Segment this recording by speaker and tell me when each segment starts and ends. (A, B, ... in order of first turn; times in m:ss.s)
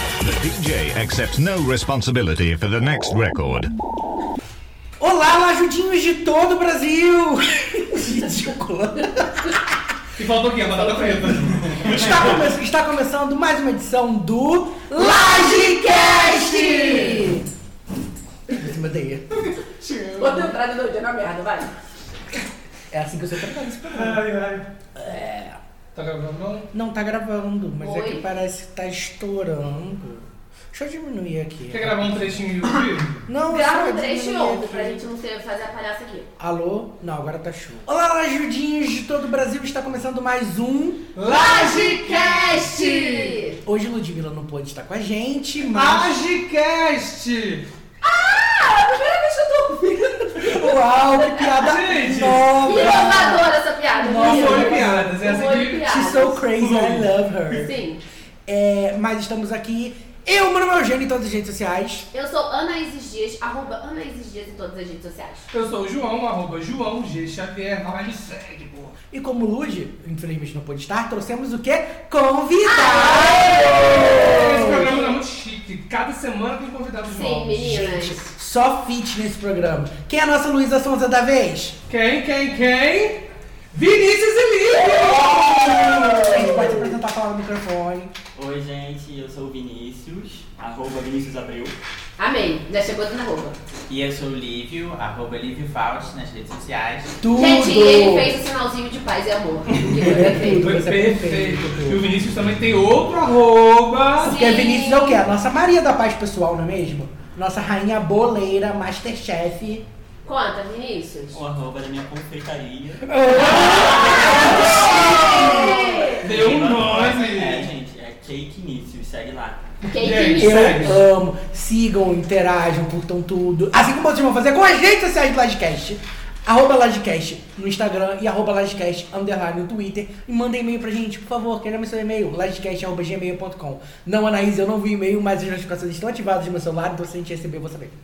0:00.2-0:03.7 A
0:05.0-0:09.7 B
0:10.2-0:12.3 C
0:10.8-0:11.2 D
0:11.8-0:17.4 B
0:15.0-0:17.4 D
0:18.5-0:19.2 B
0:19.5-0:20.5 C
0:20.1-0:21.7 D
0:22.9-0:24.2 B
0:23.9-0:24.6 C
0:24.9-0:25.6 B
0:25.9-0:26.7 C
0:26.7-0:32.4 B
0:27.8-0:28.2 D
0:31.7-0:33.2 C
0:33.2-0:35.0 B
0:33.5-0:36.3 D
0:36.4-0:41.1 B
0:41.1-0:43.4 C
0:41.2-0:43.6 D
0:43.6-0:46.1 B
0:45.7-0:47.7 C
0:48.0-0:51.5 D
0:50.3-0:55.2 B
0:51.6-0:52.8 C
0:52.6-0:56.5 D
0:54.1-0:55.8 C
0:55.8-0:57.7 B
0:56.6-0:57.1 C
0:57.5-0:58.0 D
0:58.5-1:02.1 B
1:02.1-1:05.4 D
1:05.5-1:09.0 C
1:09.1-1:15.0 B
1:12.6-1:15.1 D
1:14.0-1:17.7 C
1:17.1-1:18.3 D
1:17.6-1:21.8 B
1:21.9-1:26.5 C
1:26.2-1:28.1 B
1:28.3-1:31.7 E
1:32.2-1:33.6 D
1:33.9-1:37.2 F
1:37.2-1:38.4 B
1:37.3-1:40.7 D
1:39.9-1:42.0 B
1:40.5-1:44.4 C
1:44.2-1:45.2 D
1:44.2-1:49.8 B
1:50.2-1:51.4 D
1:51.3-1:53.6 E
1:53.0-1:56.0 B
1:53.9-1:56.2 D
1:54.1-1:59.6 E
1:56.2-1:57.6 C
1:59.8-2:01.0 D
1:59.9-2:01.0 C
2:00.4-2:17.9 B